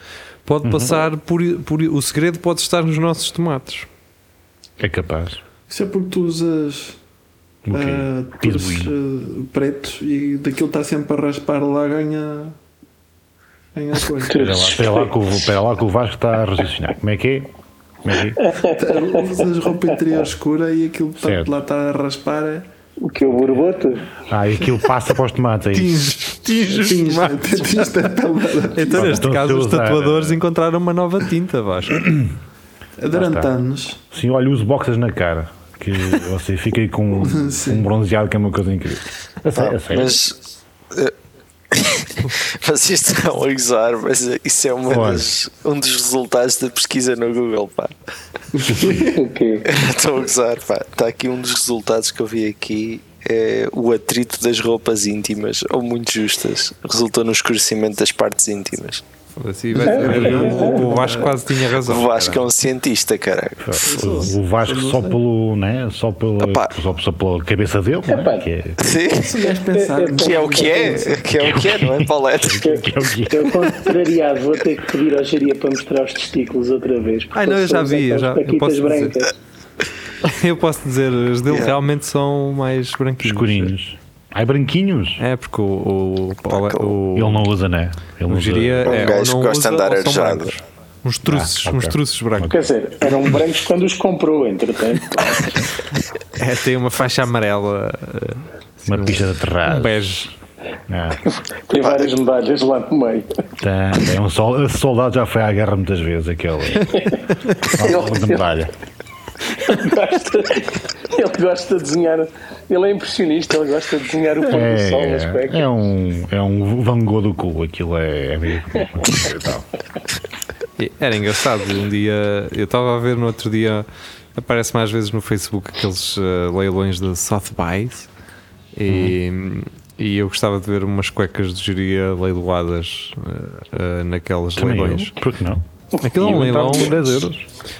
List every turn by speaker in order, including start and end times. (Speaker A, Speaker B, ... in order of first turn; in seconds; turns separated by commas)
Speaker A: 0.4-3.9, Speaker B: 0.6-1.0, Speaker B: 4.8-5.4, Speaker C: 5.7-7.0, Speaker B: 7.7-8.9, Speaker C: 7.7-12.6, Speaker C: 13.8-14.4, Speaker D: 14.3-15.1, Speaker B: 14.3-17.5, Speaker B: 18.0-18.4, Speaker D: 18.4-19.4, Speaker C: 18.7-22.7, Speaker B: 21.2-21.5, Speaker D: 23.0-24.1, Speaker B: 24.3-26.1, Speaker A: 25.7-27.6, Speaker C: 26.6-29.2, Speaker A: 28.8-32.0, Speaker B: 28.9-30.4, Speaker B: 32.0-32.3, Speaker C: 33.0-34.0, Speaker B: 33.1-33.5, Speaker B: 34.1-40.2, Speaker C: 37.2-37.9, Speaker E: 39.5-41.1, Speaker E: 41.7-47.9, Speaker B: 44.9-45.3, Speaker C: 48.6-49.0, Speaker E: 48.7-49.1, Speaker D: 48.8-49.7, Speaker E: 49.6-59.0, Speaker A: 59.4-62.5, Speaker C: 59.7-61.4, Speaker D: 59.8-60.8, Speaker E: 61.7-64.0, Speaker B: 63.6-68.8, Speaker C: 63.8-65.2, Speaker E: 66.4-66.7, Speaker D: 68.1-68.4, Speaker E: 68.8-69.4, Speaker C: 69.1-71.3, Speaker D: 69.5-71.1, Speaker E: 70.2-72.7, Speaker B: 71.3-74.0, Speaker D: 72.6-79.3, Speaker A: 77.3-79.2, Speaker A: 80.2-83.7, Speaker B: 83.2-85.2, Speaker A: 85.2-87.5, Speaker E: 86.5-87.0, Speaker B: 87.2-89.2, Speaker A: 88.3-92.6, Speaker E: 88.8-90.5, Speaker B: 91.2-92.5, Speaker D: 92.5-95.5, Speaker B: 95.3-95.7, Speaker A: 96.3-100.3, Speaker B: 98.8-100.3, Speaker B: 100.9-101.2, Speaker D: 101.3-103.4, Speaker B: 103.6-107.1, Speaker D: 106.9-108.5, Speaker B: 107.7-108.7, Speaker D: 109.6-115.7, Speaker B: 114.5-119.7, Speaker A: 120.8-128.1, Speaker A: 128.8-135.2, Speaker B: 128.9-129.2, Speaker B: 134.6-135.6, Speaker A: 136.0-137.2, Speaker B: 136.2-137.5